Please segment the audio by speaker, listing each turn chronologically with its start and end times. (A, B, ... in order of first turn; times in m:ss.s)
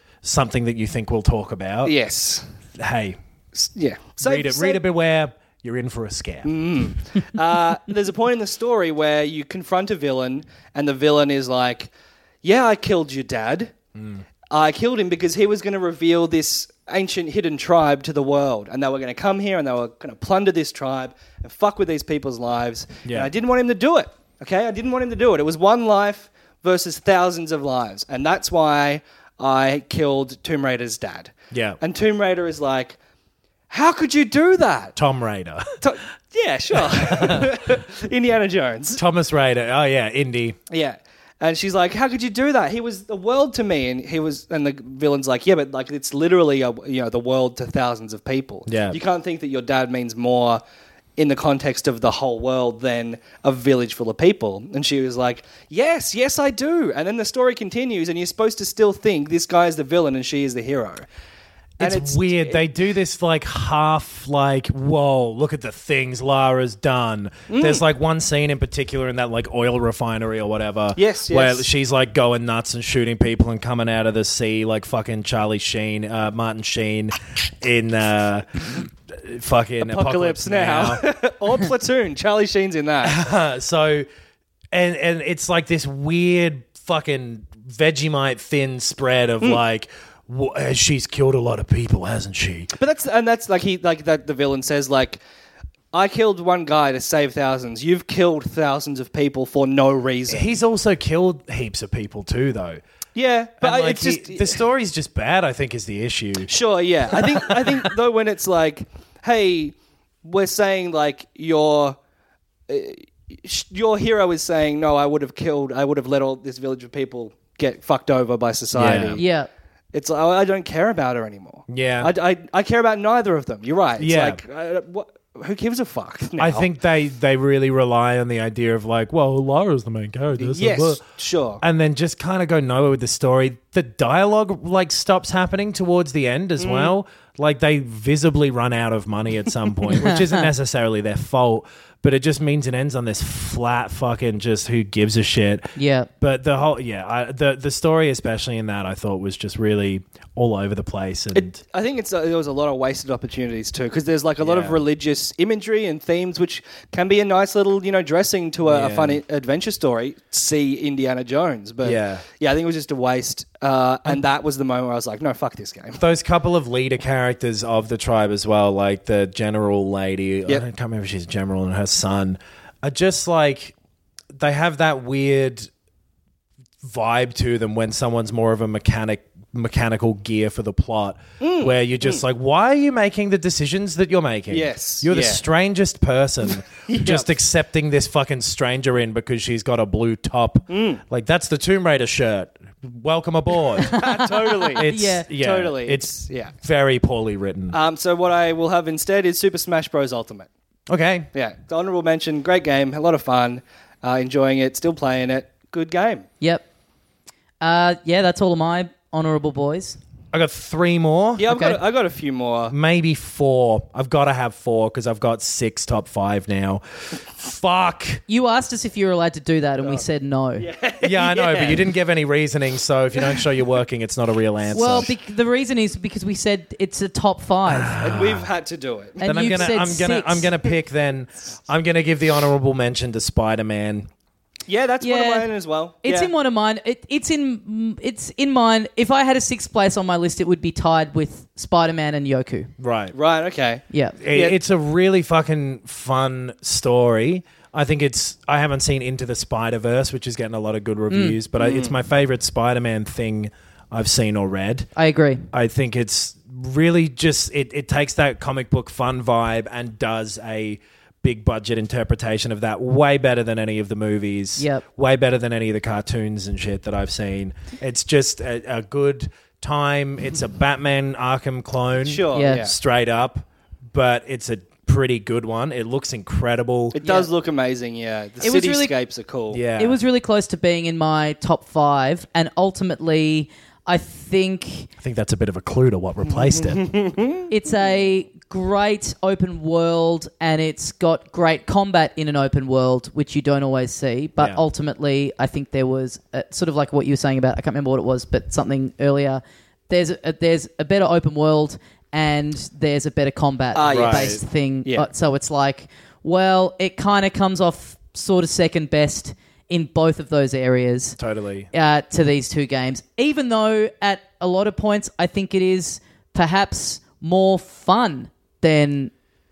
0:00.2-0:01.9 A
0:01.8-0:02.5 B
0:02.8-0:03.2 A
0:03.6-0:04.8 B
0:04.2-0:06.5 A
0:06.4-0:11.9 B
0:12.4-0:13.7 B
0:13.9-0:14.2 A
0:14.5-0:33.0 B
0:23.0-0:23.3 A
0:31.5-0:31.8 A
0:33.7-0:35.0 B
0:35.0-0:35.8 A
0:35.8-0:39.0 B
0:36.7-0:37.6 A
0:38.9-0:40.6 A
0:40.7-0:50.6 B
0:48.6-0:49.0 A
0:51.2-1:01.1 B
1:01.8-1:21.0 A
1:01.8-1:02.6 B
1:07.5-1:07.8 B
1:11.0-1:11.7 B
1:19.8-1:23.2 B
1:23.0-1:24.1 A
1:24.7-1:32.7 A
1:32.8-1:35.2 B
1:35.9-1:40.5 B
1:40.3-1:42.8 A
1:43.1-1:44.6 B
1:43.6-1:46.5 A
1:46.5-1:52.0 B
1:47.1-1:47.9 A
1:52.7-1:59.2 B
1:58.7-1:59.2 A
1:59.2-1:59.5 C
1:59.9-2:06.7 B
2:01.7-2:02.1 A
2:04.0-2:04.4 A
2:06.4-2:11.0 A
2:10.4-2:11.6 B
2:11.6-2:31.6 A
2:16.6-2:16.9 B
2:20.0-2:20.4 C
2:25.8-2:26.1 C
2:31.3-2:46.0 B
2:34.4-2:34.8 A
2:38.6-2:39.2 A
2:41.8-2:42.2 A
2:46.0-2:53.8 A
2:54.3-2:55.7 A
2:56.8-3:17.8 A
3:01.4-3:02.2 B
3:04.5-3:05.4 B
3:06.7-3:07.3 B
3:10.7-3:11.0 B
3:13.8-3:16.5 B
3:13.9-3:15.3 C
3:17.7-3:20.5 B
3:20.9-3:21.3 A
3:21.3-3:26.3 B
3:27.6-3:30.0 C
3:30.3-3:31.5 A
3:31.4-3:32.7 B
3:31.4-3:31.8 C
3:32.7-3:38.2 A
3:38.3-3:40.7 C
3:40.6-3:41.9 B
3:41.0-3:45.1 A
3:44.7-3:48.0 C
3:47.7-3:48.5 A
3:48.0-3:49.5 B
3:49.2-3:50.5 C
3:49.2-3:54.1 A
3:54.7-3:56.3 B
3:55.0-3:55.5 C
3:56.0-4:02.7 C
4:02.8-4:03.1 A
4:03.1-4:04.6 B
4:03.9-4:04.2 C
4:04.2-4:14.9 A
4:11.1-4:11.4 C
4:11.6-4:11.9 B
4:15.0-4:15.5 C
4:15.5-4:37.0 A
4:24.6-4:24.8 C
4:32.0-4:32.7 B
4:32.3-4:32.6 C
4:36.9-4:39.6 B
4:37.0-4:37.3 C
4:38.4-4:38.9 C
4:39.5-4:40.0 A
4:39.8-4:44.9 C
4:45.0-4:46.9 A
4:46.4-4:47.5 B
4:47.5-5:11.2 C
5:03.8-5:05.1 B
5:03.9-5:04.4 A
5:11.2-5:11.7 A
5:11.7-5:19.1 C